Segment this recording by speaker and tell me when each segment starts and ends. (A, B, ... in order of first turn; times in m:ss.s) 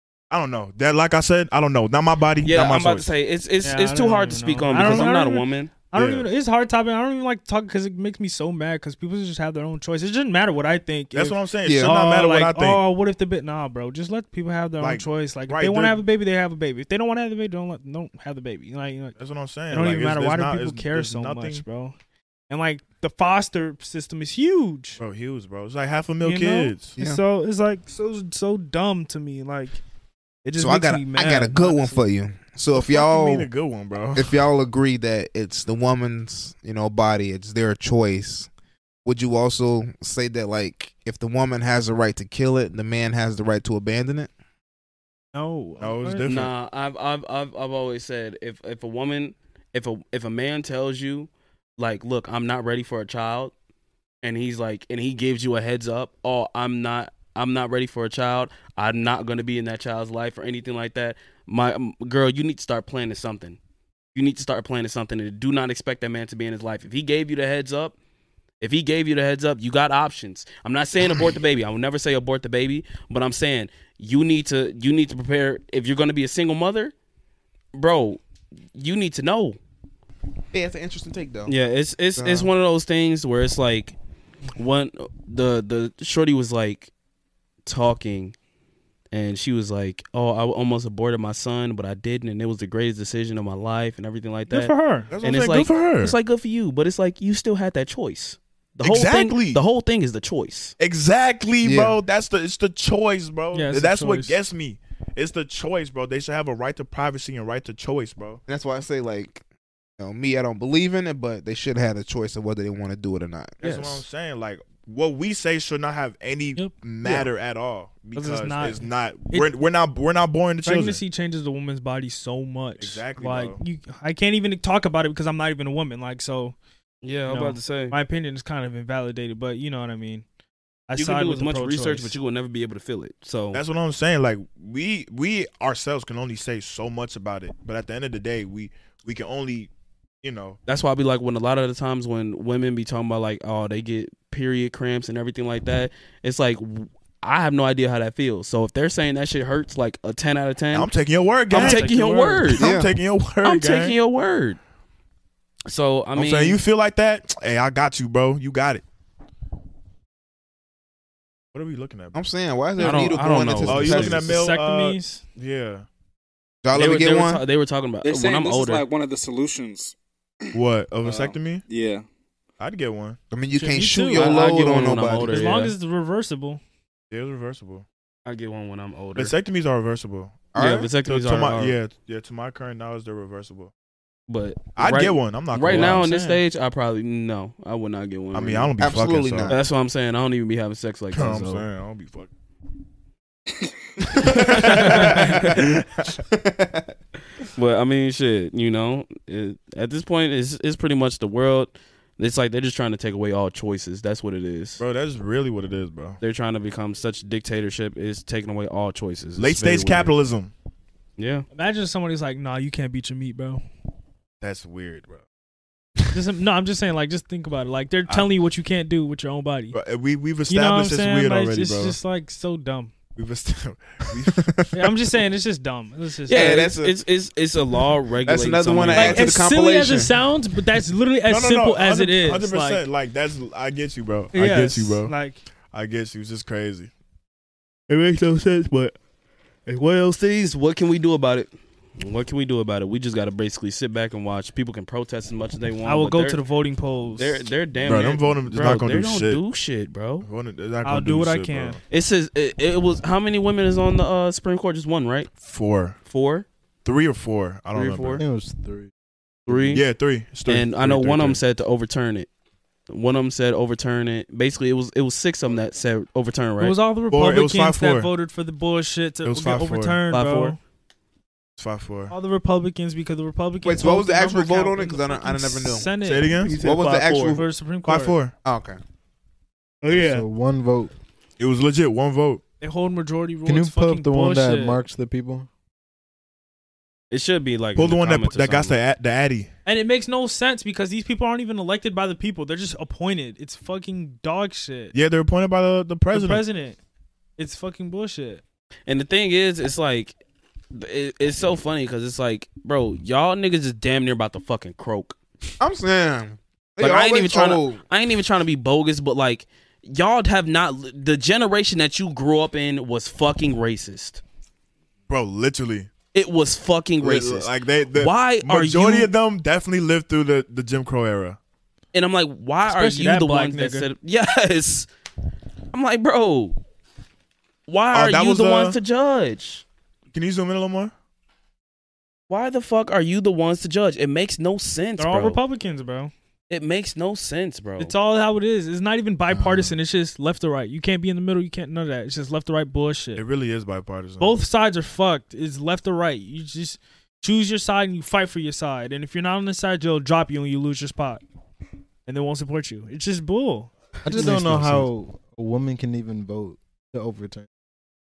0:00.3-0:03.1 A
0:02.4-0:05.7 B
0:03.6-0:19.2 C
0:04.8-0:05.0 A
0:06.0-0:06.3 A
0:11.1-0:12.8 A
0:11.6-0:12.0 D
0:14.8-0:16.0 A
0:19.2-0:21.6 A
0:19.7-0:22.0 C
0:22.5-0:25.0 C
0:25.0-0:27.0 A
0:26.2-0:29.8 C
0:30.4-0:32.0 C
0:30.6-0:33.5 D
0:32.7-0:34.4 A
0:34.2-0:38.5 D
0:39.0-0:44.3 D
0:45.3-0:46.2 C
0:45.8-0:46.5 A
0:46.3-0:53.5 B
0:54.2-1:03.6 B
1:04.1-1:08.0 B
1:08.6-1:16.9 B
1:17.7-1:18.2 B
1:18.8-1:19.6 B
1:20.5-1:21.5 D
1:21.5-1:24.0 B
1:22.2-1:22.5 D
1:24.6-1:26.9 B
1:27.7-1:28.3 B
1:29.1-1:40.8 B
1:34.5-1:35.1 C
1:35.1-1:36.2 A
1:38.8-1:39.6 A
1:40.8-1:48.4 A
1:41.6-1:42.0 D
1:43.5-1:44.4 C
1:48.5-1:49.4 D
1:50.0-1:54.0 D
1:53.6-2:01.0 A
1:58.2-1:59.5 C
2:00.6-2:06.6 C
2:02.8-2:03.6 A
2:07.0-2:08.0 B
2:07.3-2:10.2 C
2:10.9-2:12.2 C
2:10.9-2:13.6 B
2:13.5-2:19.7 A
2:20.2-2:20.6 A
2:20.7-2:30.9 B
2:30.7-2:34.0 A
2:31.5-2:32.7 B
2:31.5-2:32.6 C
2:32.6-2:32.9 D
2:33.4-2:34.6 B
2:35.7-2:36.6 B
2:36.2-2:38.8 A
2:41.5-2:42.2 A
2:42.1-2:44.4 D
2:42.8-2:44.3 B
2:43.6-2:45.9 A
2:44.2-2:45.2 C
2:46.6-2:47.4 D
2:46.7-2:48.9 B
2:48.0-2:50.0 E
2:50.5-2:51.6 A
2:51.0-2:52.0 E
2:52.6-2:53.2 A
2:53.3-2:55.4 D
2:53.6-2:54.3 C
2:54.1-2:55.8 B
2:55.3-2:56.6 C
2:57.1-2:57.9 A
2:58.3-2:59.4 B
2:59.2-3:03.7 A
3:00.6-3:01.8 B
3:00.6-3:00.9 D
3:04.3-3:08.7 B
3:04.8-3:06.4 A
3:08.3-3:09.5 A
3:08.8-3:09.7 D
3:09.5-3:11.7 B
3:11.1-3:12.3 A
3:14.2-3:15.8 A
3:14.2-3:15.6 B
3:14.2-3:16.9 D
3:17.6-3:24.8 B
3:24.8-3:26.2 A
3:26.2-3:30.1 B
3:29.4-3:30.5 A
3:31.2-3:31.4 B
3:31.5-3:33.6 C
3:34.4-3:35.2 A
3:36.1-3:39.8 C
3:39.7-3:42.0 A
3:40.5-3:42.9 C
3:43.2-3:44.5 A
3:44.3-3:44.7 D
3:44.7-3:46.7 C
3:46.3-3:47.0 D
3:46.3-3:49.4 B
3:48.3-3:50.2 D
3:48.9-3:52.8 C
3:51.3-3:55.1 A
3:54.3-3:55.4 C
3:55.7-3:56.9 A
3:57.9-3:59.0 A
3:59.7-4:00.1 A
3:59.7-4:01.5 B
4:02.0-4:06.4 B
4:05.9-4:07.4 C
4:07.2-4:10.3 B
4:07.9-4:09.4 A
4:10.2-4:11.8 A
4:10.8-4:11.8 C
4:11.9-4:15.3 B
4:15.4-4:16.0 A
4:16.1-4:16.5 B
4:16.8-4:18.2 A
4:17.7-4:18.2 B
4:18.2-4:18.9 F
4:19.5-4:19.8 B
4:19.7-4:21.4 A
4:20.5-4:22.3 B
4:22.9-4:26.8 B
4:26.6-4:30.6 C
4:27.1-4:28.1 A
4:29.2-4:30.0 A
4:30.1-4:30.6 B
4:31.6-4:32.1 A
4:32.1-4:38.3 C
4:33.6-4:35.9 D
4:36.0-4:36.5 A
4:36.5-4:37.5 D
4:37.8-4:38.3 A
4:38.4-4:38.8 D
4:39.8-4:40.2 C
4:39.8-4:40.9 F
4:41.4-4:42.4 A
4:42.6-4:44.8 C
4:43.4-4:45.5 F
4:47.1-4:48.8 B
4:47.8-4:49.5 A
4:49.7-4:55.0 C
4:54.9-4:56.4 A
4:56.1-4:56.8 C
4:57.4-4:58.4 C
4:58.9-5:00.2 B
5:00.7-5:05.2 B
5:05.6-5:07.8 D
5:06.8-5:14.2 B
5:15.1-5:15.9 A
5:16.1-5:19.1 B
5:17.0-5:21.4 A
5:21.9-5:24.9 B
5:22.7-5:23.9 C
5:25.7-5:26.6 B
5:27.7-5:29.6 B
5:27.9-5:28.8 A
5:30.1-5:30.9 A
5:32.3-5:35.4 B
5:35.0-5:36.1 C
5:36.5-5:37.9 B
5:37.8-5:43.2 C
5:39.3-5:39.8 F
5:43.2-5:44.4 A
5:44.2-5:51.2 C
5:52.1-5:54.8 C
5:54.0-5:57.5 F